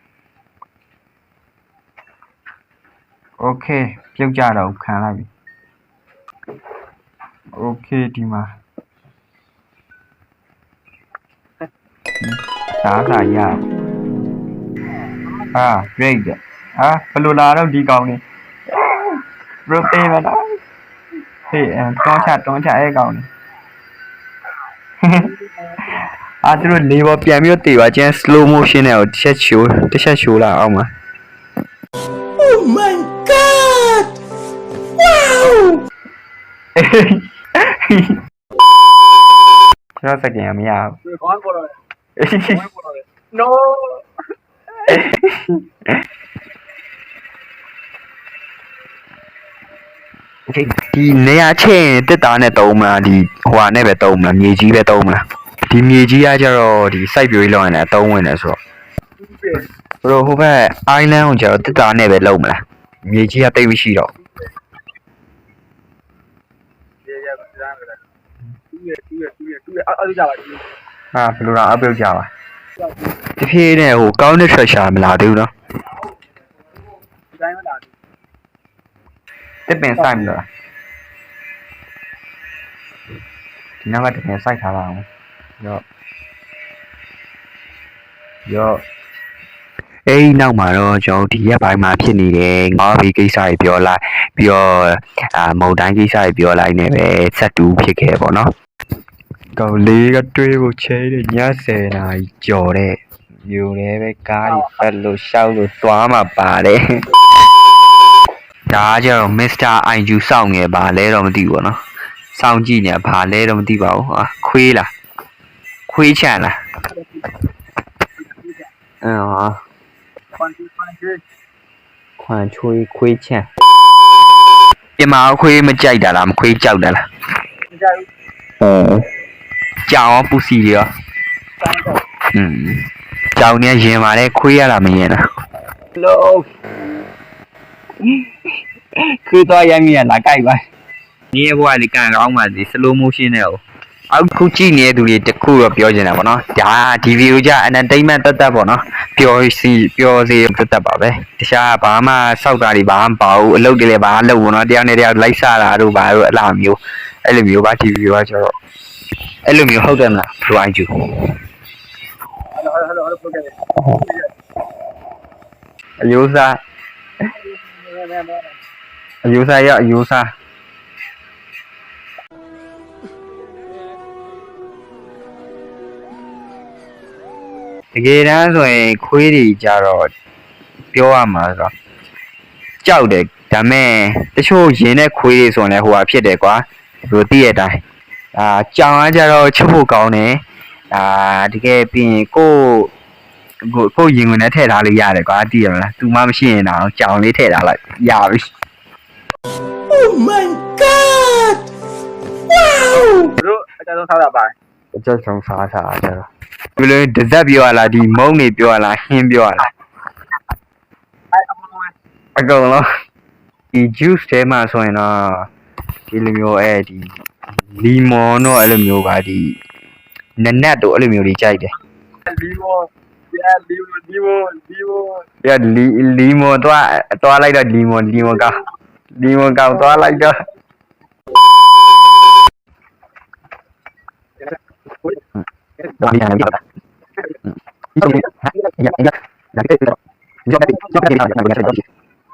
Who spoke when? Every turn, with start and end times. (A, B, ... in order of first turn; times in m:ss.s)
0:03.4-0:05.3 A
0:07.6-0:08.5 A
0:12.2-0:13.6 A
0:15.5-0:20.5 A
0:21.5-0:23.3 A
0:25.0-0:25.3 A
0:25.9-0:30.9 A
0:32.4-0:34.1 B
0:35.1-0:35.8 B
0:36.8-0:38.2 A
0:40.0-0:41.0 A
0:41.1-0:41.7 C
0:42.2-0:42.7 A
0:42.7-0:43.9 C
0:44.8-0:45.6 A
0:50.5-0:58.6 A
0:59.5-1:04.1 A
1:07.1-1:08.0 C
1:08.7-1:10.6 C
1:11.1-1:12.3 A
1:13.4-1:15.5 A
1:17.3-1:17.9 C
1:19.7-1:20.5 A
1:23.8-1:25.0 A
1:28.5-1:28.8 A
1:30.1-1:38.5 A
1:39.6-1:47.0 A
1:48.7-1:51.8 A
1:52.3-1:54.9 A
1:55.9-1:56.6 A
1:58.3-1:58.6 C
1:59.0-1:59.6 A
2:00.4-2:01.2 C
2:02.2-2:03.4 A
2:05.0-2:07.0 A
2:07.7-2:08.0 C
2:08.6-2:09.0 A
2:09.9-2:10.9 A
2:12.3-2:15.2 A
2:15.9-2:16.4 A
2:18.0-2:18.3 A
2:19.2-2:20.6 A
2:21.3-2:38.5 A
2:39.4-2:41.3 A
2:42.6-2:43.5 C
2:43.8-2:44.1 A
2:46.0-2:46.6 A
2:47.8-2:48.5 C
2:49.2-2:50.3 A
2:57.9-3:00.1 A
3:00.9-3:01.7 A
3:02.8-3:07.8 A
3:08.3-3:12.9 A
3:13.7-3:18.5 A
3:19.9-3:21.6 B
3:22.6-3:23.3 B
3:23.4-3:24.5 C
3:24.9-3:29.6 A
3:31.4-3:31.8 C
3:32.4-3:32.8 A
3:33.7-3:35.5 A
3:36.1-3:39.6 A
3:40.4-3:41.7 A
3:42.3-3:45.2 C
3:45.4-3:48.6 A
3:49.2-3:50.4 A
3:55.8-3:56.6 A
3:57.9-4:01.8 A